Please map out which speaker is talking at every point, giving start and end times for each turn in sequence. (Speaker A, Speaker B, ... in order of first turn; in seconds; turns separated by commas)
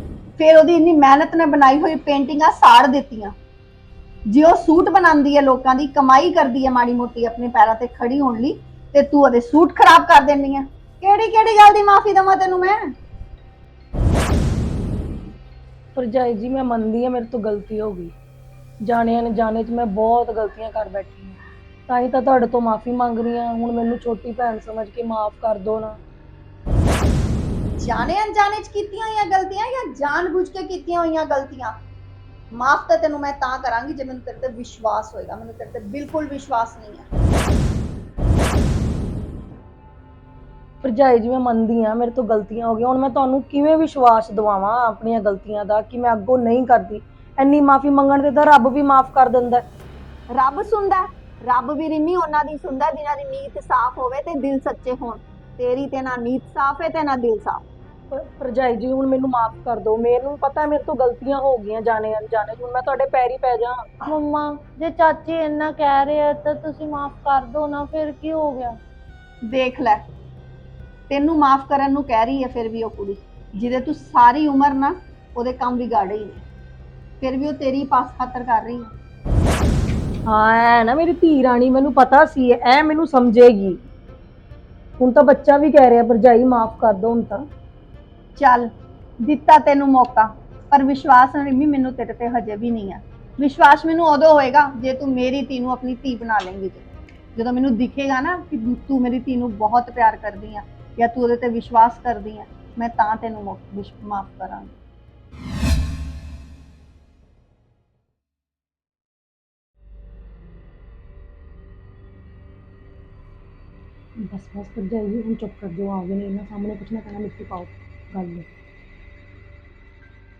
Speaker A: 0.4-3.3, Speaker A: 4.3-12.8, Speaker B: 15.9-18.1, Speaker B: 18.8-26.0, Speaker A: 27.8-31.7, Speaker A: 32.5-37.1, Speaker B: 40.8-49.6, Speaker A: 50.3-57.6, Speaker B: 58.1-63.8, Speaker C: 64.0-68.8, Speaker A: 69.5-70.0, Speaker A: 71.1-76.4, Speaker A: 77.2-78.9, Speaker B: 80.2-83.8, Speaker B: 85.0-87.5, Speaker A: 88.4-88.7, Speaker A: 89.2-104.7, Speaker B: 114.3-118.5